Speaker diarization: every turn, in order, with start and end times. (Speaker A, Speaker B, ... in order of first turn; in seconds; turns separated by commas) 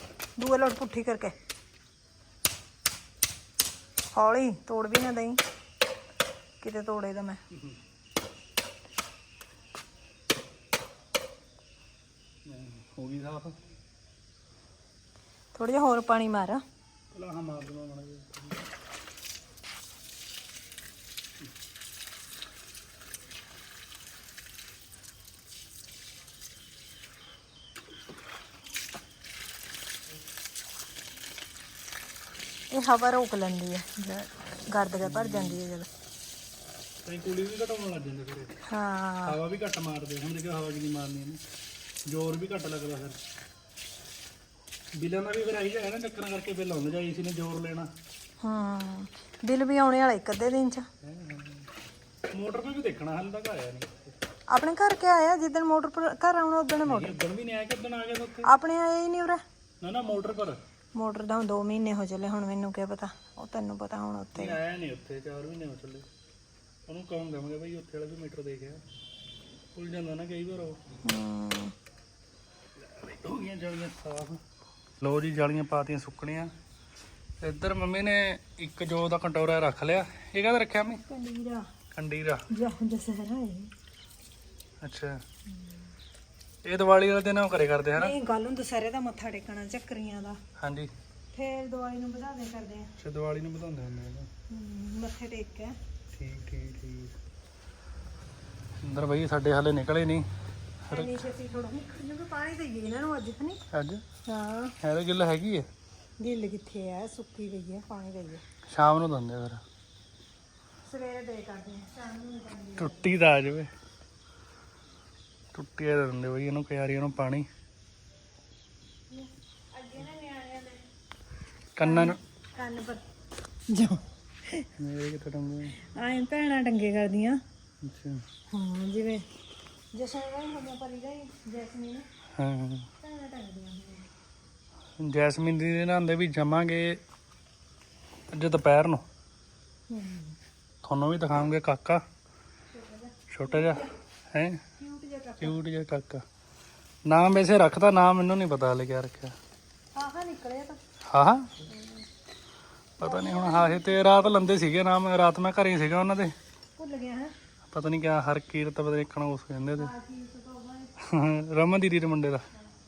Speaker A: 0.4-1.3, Speaker A: 4.1-5.4, Speaker A: 6.6-7.4, Speaker B: 7.5-7.8, Speaker B: 12.4-13.6, Speaker A: 15.5-16.6, Speaker B: 17.1-18.6, Speaker A: 32.7-35.9, Speaker B: 35.0-35.6, Speaker B: 37.0-38.6, Speaker A: 38.7-39.4, Speaker B: 39.2-41.4, Speaker B: 42.1-43.2, Speaker B: 45.0-47.9, Speaker A: 48.4-50.9, Speaker B: 51.0-51.7, Speaker B: 52.3-54.1, Speaker A: 54.5-57.1, Speaker B: 56.9-58.5, Speaker A: 58.4-59.4, Speaker B: 59.8-60.6, Speaker A: 60.9-64.6, Speaker B: 64.3-66.0, Speaker B: 66.9-68.8, Speaker B: 69.7-70.8, Speaker A: 71.0-71.7, Speaker B: 72.8-74.4, Speaker B: 75.0-76.5, Speaker B: 77.4-81.0, Speaker A: 81.1-81.6, Speaker B: 81.9-82.5, Speaker A: 82.5-83.7, Speaker B: 84.8-85.2, Speaker A: 85.5-85.8, Speaker B: 86.6-88.1, Speaker A: 88.0-90.4, Speaker B: 90.6-90.9, Speaker A: 91.3-92.9, Speaker B: 93.0-94.3, Speaker A: 94.5-95.7, Speaker B: 96.1-97.1, Speaker B: 98.8-100.2, Speaker B: 100.9-101.1, Speaker A: 100.9-103.6, Speaker B: 103.7-104.0, Speaker A: 104.3-104.7, Speaker B: 104.8-105.7, Speaker A: 106.2-108.4, Speaker B: 108.7-109.6, Speaker A: 110.8-113.1, Speaker B: 112.8-113.7, Speaker B: 115.5-117.5, Speaker A: 119.1-120.8, Speaker B: 121.8-122.2, Speaker A: 121.8-123.0, Speaker A: 123.7-124.7, Speaker B: 124.8-125.8, Speaker A: 125.8-127.4, Speaker B: 127.8-128.2, Speaker A: 128.5-129.3, Speaker A: 129.9-132.1, Speaker B: 132.4-132.9, Speaker A: 133.0-134.1, Speaker B: 135.0-137.0, Speaker B: 138.3-139.0, Speaker A: 139.9-140.4, Speaker B: 140.8-142.0, Speaker A: 142.7-143.9, Speaker B: 143.3-144.6, Speaker A: 144.8-145.6, Speaker B: 145.4-146.2, Speaker B: 147.1-149.3, Speaker A: 149.9-150.8, Speaker B: 151.1-151.6, Speaker A: 151.7-152.1, Speaker B: 153.0-156.3, Speaker A: 153.0-154.2, Speaker A: 156.8-157.3, Speaker B: 157.7-159.9, Speaker A: 159.8-160.9, Speaker B: 161.0-162.5